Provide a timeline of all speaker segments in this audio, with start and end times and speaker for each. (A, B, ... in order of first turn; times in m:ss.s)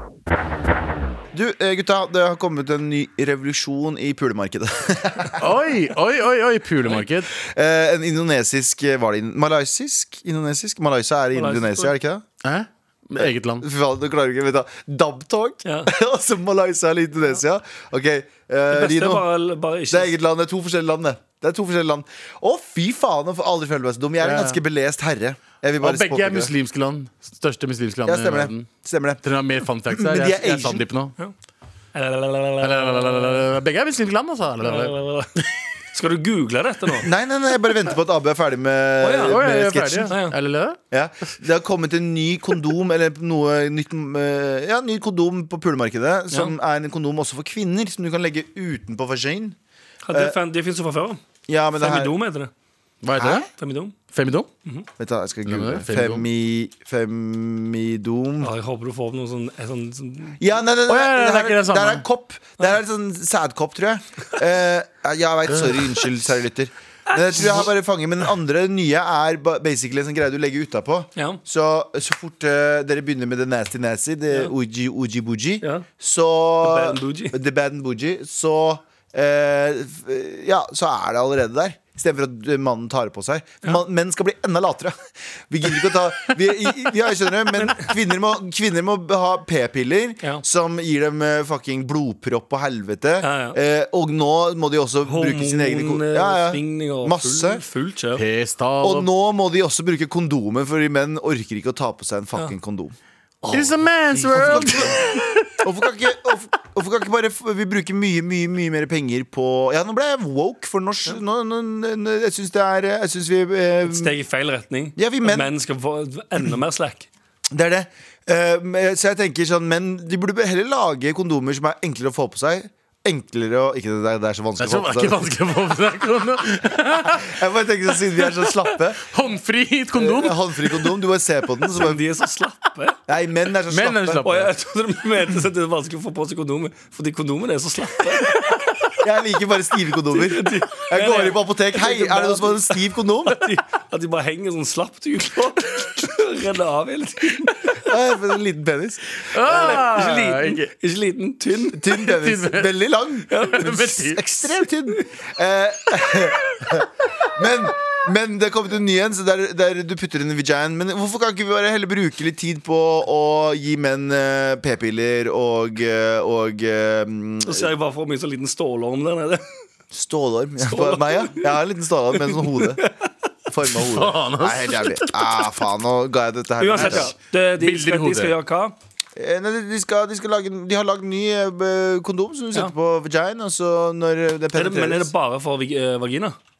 0:01.3-0:05.5 A
0:05.4-0:07.3 B
0:07.3-0:12.2 A
0:11.3-0:11.9 C
0:12.4-0:13.6 B
0:13.2-0:19.2 A
0:15.6-0:15.9 C
0:18.7-0:20.1 C
0:19.9-0:26.5 A
0:24.2-0:24.6 B
0:25.8-0:28.7 B
0:28.0-0:29.2 A
0:29.2-0:31.1 B
0:29.9-0:30.8 A
0:31.9-0:33.4 C
0:32.6-0:35.5 B
0:34.6-0:35.3 C
0:35.9-0:37.1 C
0:37.0-0:40.1 A
0:39.0-0:39.4 C
0:39.2-0:40.8 B
0:40.0-0:40.4 C
0:40.9-0:49.6 A
0:50.0-0:51.2 C
0:51.5-0:52.1 A
0:51.8-0:52.5 C
0:53.0-0:53.5 B
0:53.2-0:53.4 A
0:53.5-0:53.9 C
0:54.1-0:54.5 B
0:55.0-0:58.5 A
0:55.4-0:56.2 B
0:58.4-1:00.4 C
1:00.4-1:25.0 A
1:00.9-1:02.0 B
1:07.1-1:07.7 C
1:16.6-1:17.4 C
1:25.5-1:37.6 A
1:27.5-1:27.9 C
1:33.2-1:33.6 C
1:35.0-1:38.2 C
1:38.2-1:39.1 B
1:38.8-1:42.9 A
1:43.4-1:45.0 C
1:43.5-1:45.6 B
1:44.3-1:45.0 A
1:45.6-1:54.1 A
1:53.8-1:57.1 C
1:55.0-1:55.5 A
1:57.5-2:05.3 A
2:04.6-2:07.4 B
2:06.9-2:09.1 A
2:08.1-2:10.9 B
2:09.9-2:12.0 A
2:11.7-2:13.0 C
2:13.1-2:14.3 A
2:13.7-2:14.5 B
2:14.2-2:18.5 C
2:19.0-2:23.4 A
2:20.1-2:27.8 C
2:27.8-2:29.7 A
2:29.3-2:30.7 B
2:29.4-2:31.9 C
2:31.7-2:47.7 A
2:32.0-2:32.7 B
2:33.3-2:33.7 C
2:33.5-2:34.5 B
2:47.4-2:49.4 C
2:49.9-2:52.8 A
2:50.6-2:51.5 C
2:52.2-2:52.9 C
2:53.5-2:57.1 A
2:53.8-2:55.5 B
2:56.6-2:58.7 C
2:56.7-2:58.4 B
2:59.2-3:05.1 A
3:04.5-3:06.4 C